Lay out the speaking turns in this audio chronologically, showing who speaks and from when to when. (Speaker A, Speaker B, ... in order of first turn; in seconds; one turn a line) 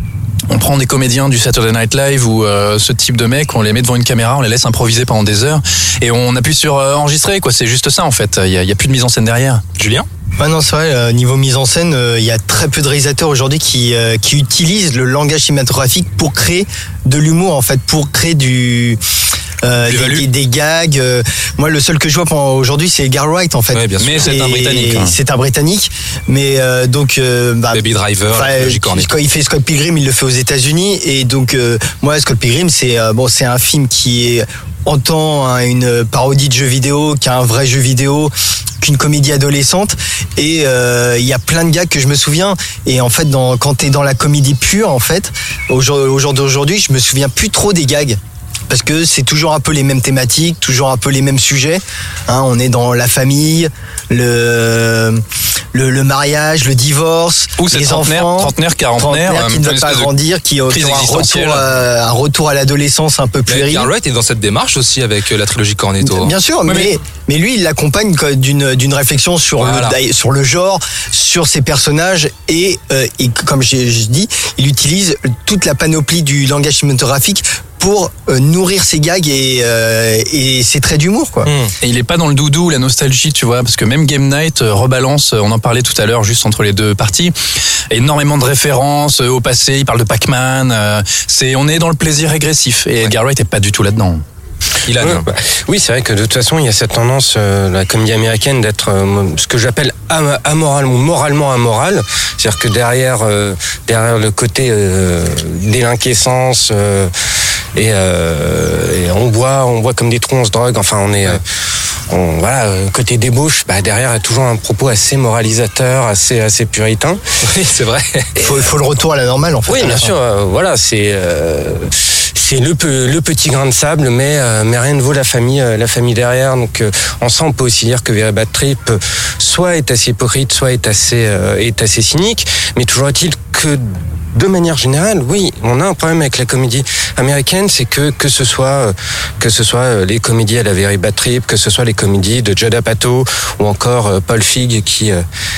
Speaker A: 0.5-9.6
Speaker B: 9.8-10.1
Speaker C: 10.4-19.0
Speaker C: 19.6-55.2
Speaker A: 19.8-20.2
Speaker B: 23.7-24.6
Speaker A: 24.0-25.1
Speaker B: 27.7-29.1
Speaker C: 55.7-63.9
Speaker A: 57.6-60.1
Speaker A: 60.7-61.7
Speaker B: 63.5-66.3
Speaker C: 66.0-81.5
Speaker A: 66.7-66.9
Speaker B: 69.6-70.0
Speaker B: 81.4-81.7
Speaker A: 81.8-94.2
Speaker B: 94.8-95.3
Speaker D: 95.0-107.1
Speaker D: 107.7-111.4
Speaker D: 112.1-117.2
Speaker B: 117.4-118.6
Speaker C: 118.4-120.1
Speaker D: 119.7-145.2